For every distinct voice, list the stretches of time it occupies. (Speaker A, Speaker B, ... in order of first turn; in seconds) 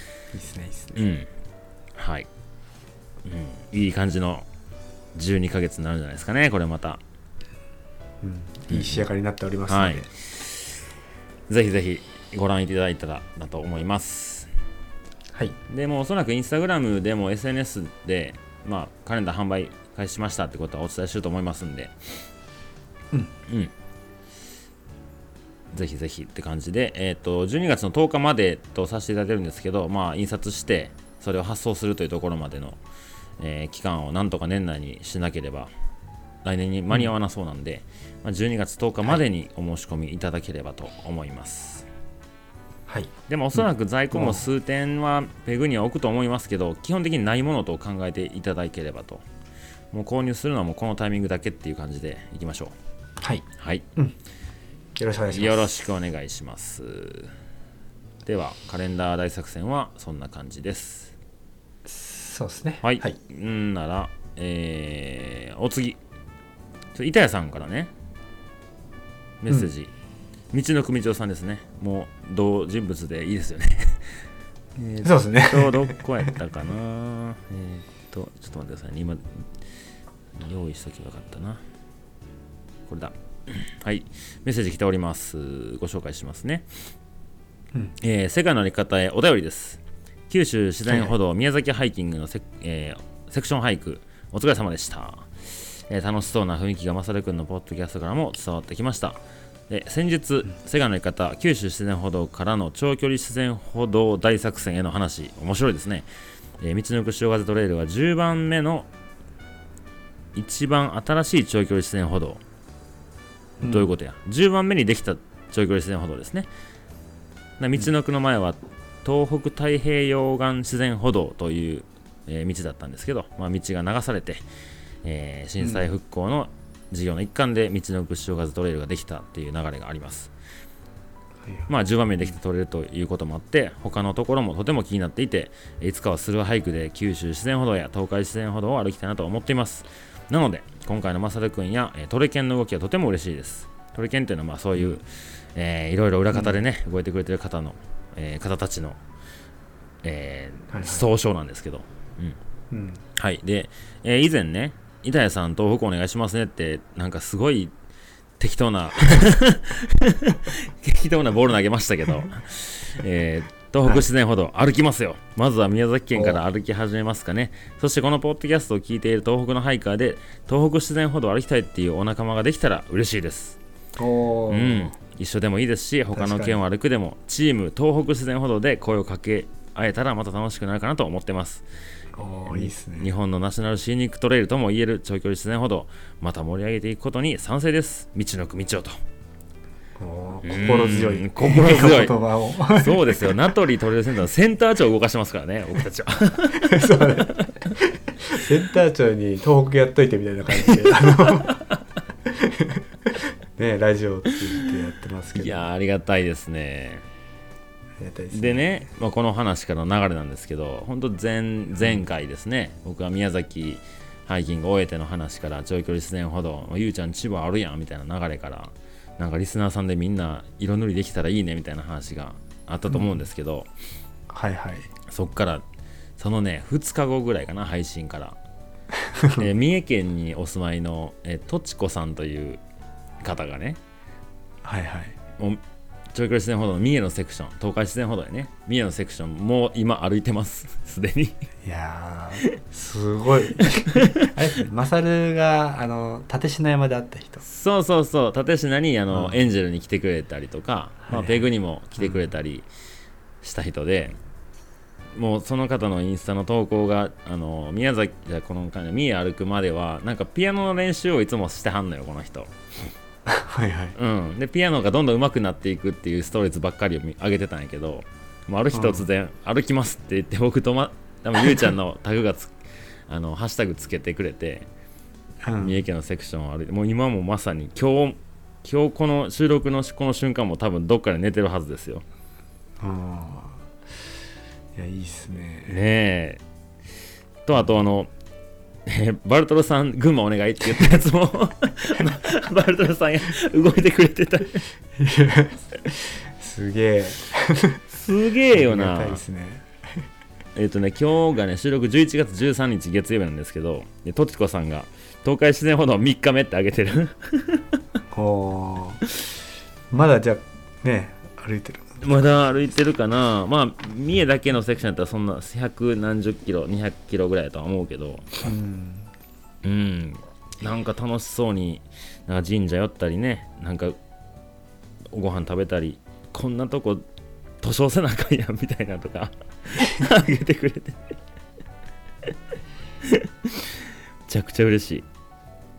Speaker A: 0.3-1.0, 8.2-10.1, 42.9-43.1, 44.1-44.4, 53.2-54.2, 54.9-55.7, 61.9-63.1, 75.0-76.0, 90.9-91.1, 113.6-113.9, 125.6-125.9, 131.4-131.7, 146.3-146.6, 150.7-151.1, 152.7-153.0, 166.1-166.4, 174.0-174.9, 176.1-176.6, 182.2-183.1, 190.0-193.2, 196.6-201.6, 202.2-205.6, 208.0-208.8, 222.9-223.3, 224.3-224.9, 229.0-229.5, 234.6-235.2, 241.6-247.4, 249.1-249.4, 251.1-252.2, 263.2-264.0, 268.7-269.1, 275.4-275.8, 282.8-283.6, 284.7-285.8, 294.9-297.8, 298.5-300.0, 308.1-309.0, 309.9-312.0, 318.4-319.1
Speaker B: 0.9-1.3, 1.9-2.3, 3.2-4.5, 5.1-7.0, 8.7-9.0, 9.7-10.8, 11.5-14.5, 15.7-22.2, 25.7-32.8, 33.4-35.7, 36.4-41.9, 43.3-49.2, 49.9-52.7, 53.6-53.8, 55.3-57.3, 58.2-61.1, 62.8-66.0, 66.9-67.9, 69.4-69.9, 70.5-74.1, 74.8-79.4, 80.3-81.6, 82.9-86.7, 88.0-106.0, 106.6-108.9, 110.3-112.4, 113.6-116.5, 117.6-124.4, 125.0-130.3, 131.7-149.0, 150.0-152.4, 153.2-157.7, 158.4-173.6, 174.5-181.6, 182.5-189.0, 190.4-197.5, 200.6-201.7, 205.3-207.0, 208.3-223.7, 225.1-225.6, 226.2-228.4, 229.4-232.6, 233.2-233.8, 236.1-241.4, 243.6-244.3, 247.4-252.7, 253.4-254.2, 255.1-262.5, 263.9-272.5, 273.1-274.7, 275.6-282.0, 285.6-286.4, 287.4-288.1, 288.9-294.6, 297.9-299.2, 300.6-307.8, 312.0-318.4, 319.6-324.0, 325.1-327.0, 327.6-331.0, 333.0-333.7, 334.3-335.1